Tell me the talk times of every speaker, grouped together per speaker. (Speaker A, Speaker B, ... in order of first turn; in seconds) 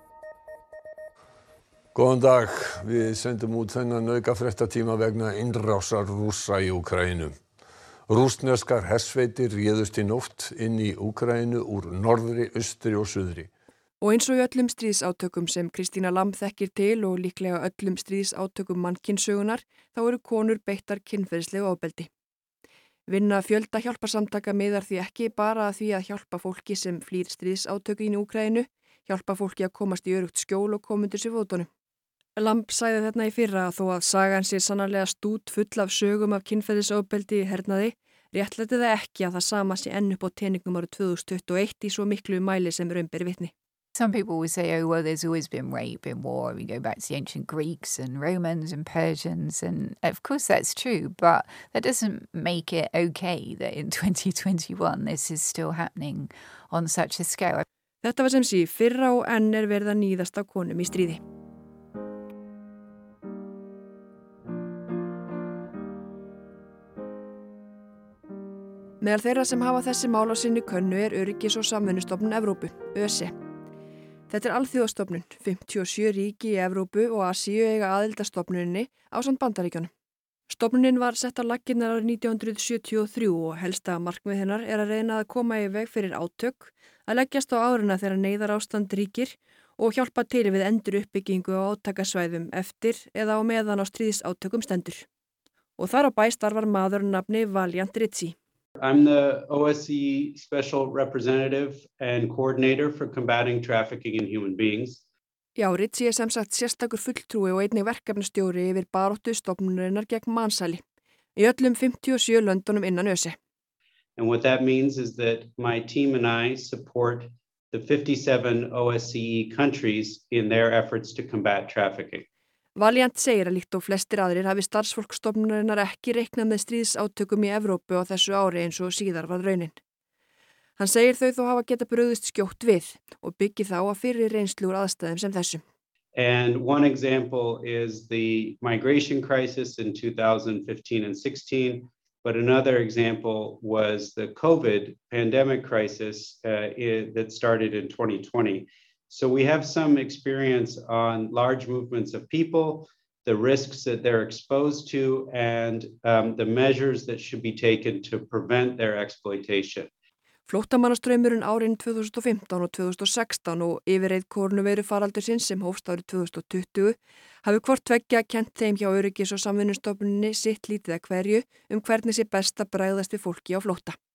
Speaker A: 1.9-7.4, 8.1-13.5
Speaker B: 14.0-22.1, 23.1-31.7, 32.4-43.5, 58.0-61.2, 69.0-73.3, 74.3-79.9, 80.5-95.1, 95.8-98.4, 105.6-110.8, 111.4-113.4, 122.8-129.8, 130.8-135.6, 160.5-174.0
Speaker C: 44.0-57.6
Speaker D: 98.8-105.0, 114.2-122.3, 136.2-159.9